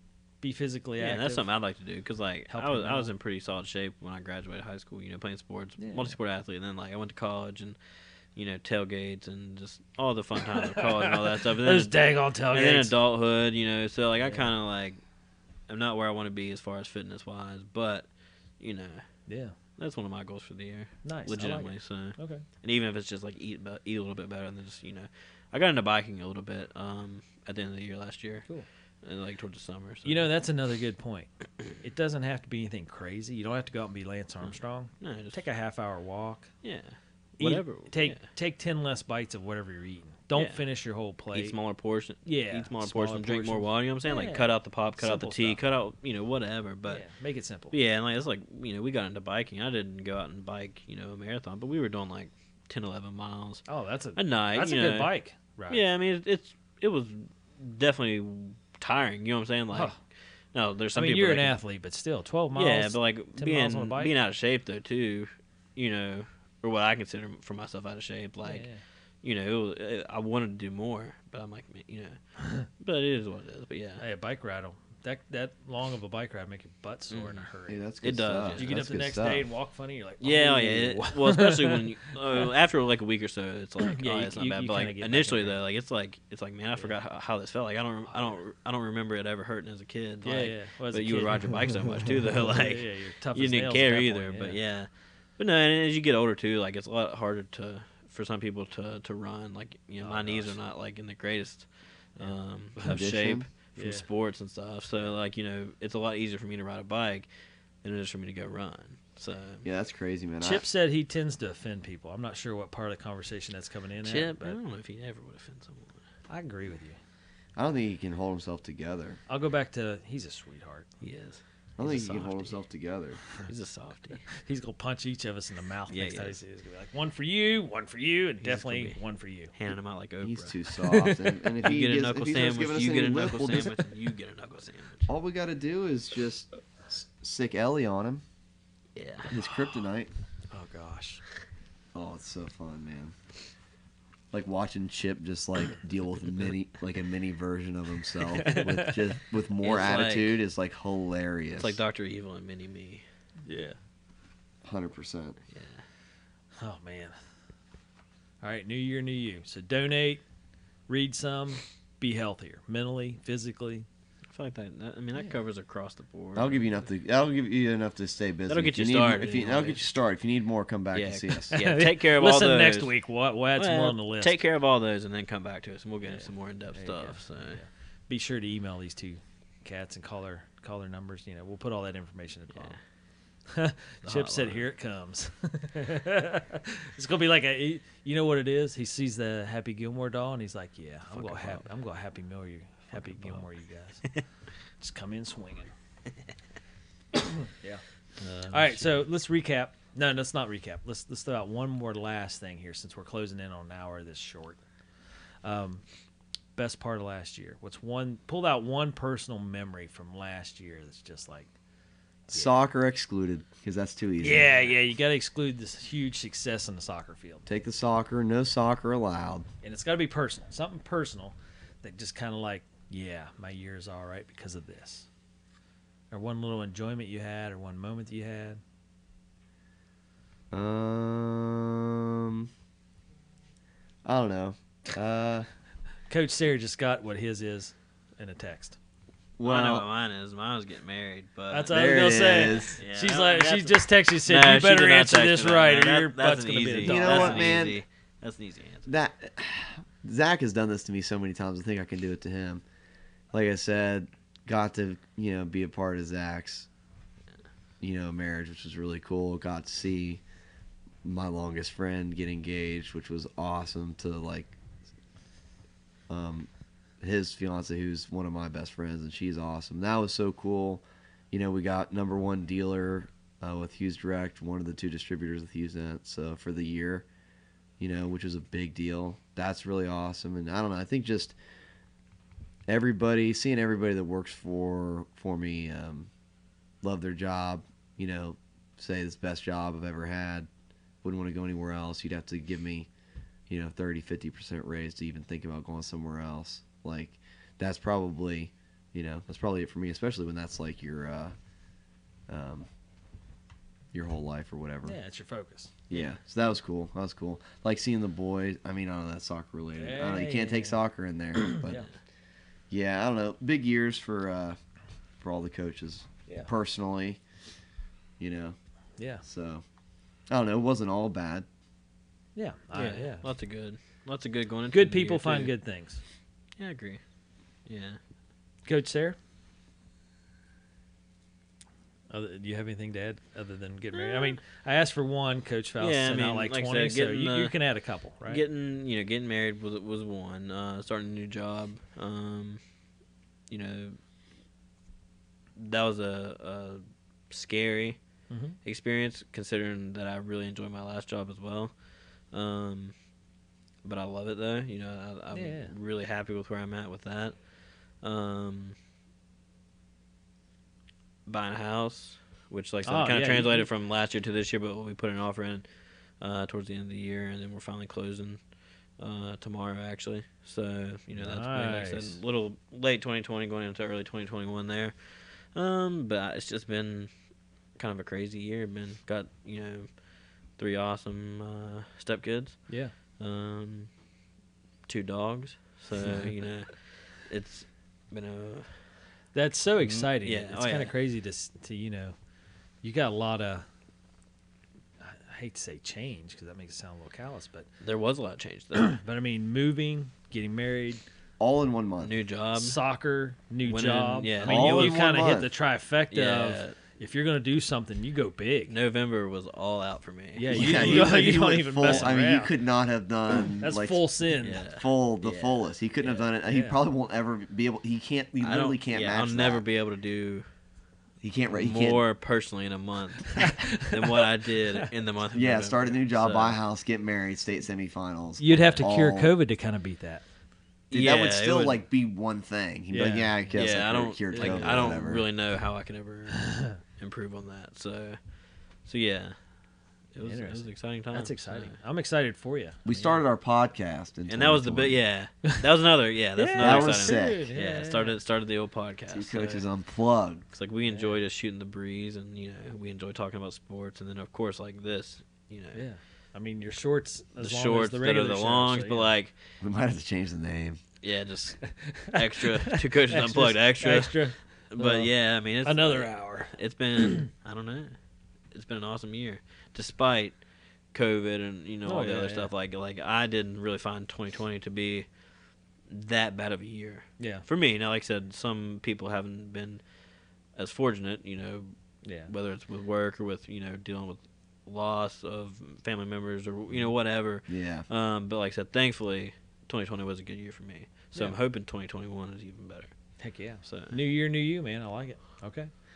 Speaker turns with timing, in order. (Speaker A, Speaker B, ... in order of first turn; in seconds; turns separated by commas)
Speaker A: 0.4-1.5, Speaker B: 1.0-7.8, Speaker A: 2.5-3.1, Speaker A: 5.8-6.2, Speaker B: 8.3-15.0, Speaker A: 10.5-12.9, Speaker A: 14.2-14.5, Speaker B: 15.7-18.1, Speaker B: 18.6-19.1, Speaker A: 19.3-19.5, Speaker B: 19.8-28.5, Speaker A: 21.0-22.4, Speaker B: 29.0-30.3, Speaker A: 30.0-36.5, Speaker B: 34.4-35.4, Speaker B: 36.6-38.2, Speaker A: 37.4-41.5, Speaker B: 40.3-40.6, Speaker B: 41.3-47.0, Speaker A: 42.2-45.6, Speaker A: 46.8-47.7, Speaker B: 47.7-55.1, Speaker A: 53.7-55.8, Speaker B: 55.7-59.9, Speaker B: 60.5-61.5, Speaker A: 60.9-64.1, Speaker B: 62.5-68.7, Speaker A: 68.4-68.8, Speaker B: 69.2-72.2, Speaker A: 72.4-72.7, Speaker B: 72.8-74.0, Speaker A: 74.0-77.8, Speaker B: 77.1-77.4, Speaker C: 77.7-79.5, Speaker B: 78.0-78.8, Speaker A: 78.5-82.5, Speaker B: 80.2-107.3, Speaker A: 83.8-85.6, Speaker A: 90.2-94.6, Speaker A: 100.0-100.6, Speaker A: 102.2-103.0, Speaker C: 102.8-103.5, Speaker A: 103.7-104.0, Speaker B: 107.8-109.7, Speaker C: 109.6-110.6, Speaker A: 110.4-114.6, Speaker B: 114.0-116.0, Speaker A: 116.3-117.0, Speaker C: 117.5-119.2, Speaker A: 119.3-120.9, Speaker B: 121.0-122.6, Speaker C: 121.8-123.2, Speaker B: 123.4-124.2, Speaker A: 124.3-129.5, Speaker B: 125.9-126.4, Speaker B: 128.4-129.0, Speaker B: 129.5-130.5, Speaker C: 130.2-133.7, Speaker A: 130.8-131.5, Speaker B: 131.6-135.1, Speaker C: 135.1-138.2, Speaker B: 138.9-139.4, Speaker C: 139.3-140.1, Speaker A: 140.5-141.2, Speaker C: 141.9-143.1, Speaker C: 144.3-151.8, Speaker A: 148.3-149.1, Speaker B: 149.6-150.4, Speaker B: 151.6-153.0, Speaker A: 153.4-153.8, Speaker C: 154.6-155.4, Speaker B: 155.5-155.8, Speaker A: 156.6-157.1, Speaker A: 158.4-160.2, Speaker A: 160.9-163.8, Speaker B: 164.3-166.6, Speaker C: 166.3-171.6, Speaker B: 168.5-169.8, Speaker B: 170.9-172.9, Speaker A: 171.5-174.4, Speaker B: 173.6-177.6, Speaker A: 176.1-182.8, Speaker B: 182.5-182.8, Speaker A: 183.5-194.2, Speaker B: 184.0-184.6, Speaker B: 191.1-191.7, Speaker B: 192.9-193.5, Speaker A: 194.8-195.7, Speaker A: 197.1-197.8, Speaker B: 198.2-199.0, Speaker A: 198.5-204.6, Speaker A: 205.4-205.8, Speaker A: 206.6-211.5, Speaker A: 212.3-212.5, Speaker C: 212.3-214.6, Speaker A: 214.2-217.5, Speaker C: 217.4-219.5, Speaker A: 219.6-225.1, Speaker A: 226.1-228.6, Speaker C: 230.5-232.5, Speaker C: 234.0-235.5, Speaker A: 236.1-238.8, Speaker C: 239.4-239.8, Speaker B: 239.4-241.9, Speaker A: 241.5-247.5, Speaker C: 241.7-242.8, Speaker B: 242.8-248.9, Speaker C: 246.8-247.8, Speaker C: 248.8-252.6, Speaker C: 253.3-256.7, Speaker C: 257.8-260.2, Speaker C: 261.0-264.5, Speaker C: 266.1-266.5, Speaker C: 267.0-277.1, Speaker C: 277.8-281.3, Speaker C: 282.7-286.1, Speaker C: 286.8-290.5, Speaker C: 291.0-292.9, Speaker C: 293.5-301.3, Speaker C: 302.3-302.7, Speaker C: 303.9-305.0, Speaker A: 304.8-305.7, Speaker C: 305.9-311.8, Speaker A: 309.8-310.8, Speaker A: 311.5-311.9, Speaker C: 312.7-314.6, Speaker C: 315.2-317.2, Speaker C: 318.2-318.6, Speaker A: 319.0-319.2, Speaker C: 319.2-319.6, Speaker C: 320.3-321.4, Speaker A: 322.3-323.3, Speaker B: 322.7-325.5, Speaker A: 324.7-326.0, Speaker B: 326.6-327.0, Speaker B: 327.6-328.0, Speaker A: 328.6-329.2, Speaker A: 332.1-338.4, Speaker B: 333.9-334.4, Speaker B: 335.8-337.6, Speaker B: 338.2-342.6, Speaker B: 343.5-344.0, Speaker B: 345.6-348.0, Speaker A: 348.3-348.6, Speaker B: 348.6-351.8, Speaker B: 352.3-352.9, Speaker B: 353.8-358.8, Speaker A: 355.3-355.7, Speaker B: 361.2-365.7, Speaker A: 362.8-363.7, Speaker B: 366.2-368.4, Speaker B: 369.0-377.1, Speaker A: 371.1-372.2, Speaker B: 377.8-379.9, Speaker B: 380.5-382.6, Speaker A: 382.7-382.9, Speaker B: 383.2-383.9, Speaker B: 384.9-388.9, Speaker A: 389.3-392.1, Speaker B: 389.8-390.9, Speaker A: 392.8-393.6, Speaker A: 395.0-397.7, Speaker B: 397.8-398.9, Speaker A: 398.8-401.0, Speaker C: 401.4-402.1, Speaker B: 402.0-402.8, Speaker A: 402.5-408.7, Speaker B: 403.6-405.0, Speaker C: 404.4-405.5, Speaker B: 406.1-406.8, Speaker B: 408.7-412.1, Speaker A: 410.4-412.5, Speaker C: 410.5-414.0, Speaker A: 413.6-414.6, Speaker B: 414.4-416.2, Speaker C: 414.6-419.6, Speaker A: 416.4-416.8, Speaker B: 418.4-420.4, Speaker C: 421.2-422.0, Speaker B: 421.5-426.6, Speaker A: 423.4-423.9, Speaker C: 425.3-429.3, Speaker A: 428.4-430.2, Speaker B: 428.5-428.9, Speaker B: 430.9-431.8, Speaker C: 430.9-435.2, Speaker A: 432.9-433.5, Speaker B: 433.5-436.4, Speaker A: 434.3-434.9, Speaker A: 436.3-436.8, Speaker B: 437.0-438.2, Speaker B: 438.8-439.4, Speaker B: 440.1-441.7, Speaker A: 440.2-443.2, Speaker C: 442.8-445.0, Speaker B: 444.3-449.6, Speaker A: 446.4-448.2, Speaker C: 446.6-447.4, Speaker C: 449.1-450.4, Speaker B: 450.5-455.8, Speaker A: 450.8-451.2, Speaker A: 455.7-459.1, Speaker B: 457.4-459.4, Speaker C: 459.6-460.8, Speaker B: 461.0-467.9, Speaker A: 461.6-462.2, Speaker A: 463.1-466.5, Speaker B: 468.5-470.4, Speaker B: 470.9-475.1, Speaker A: 471.8-472.5, Speaker B: 475.9-479.8, Speaker A: 477.2-477.4, Speaker B: 480.5-481.7, Speaker A: 482.0-482.3, Speaker B: 482.3-492.9, Speaker C: 487.5-487.9, Speaker A: 493.2-495.7, Speaker B: 493.6-493.9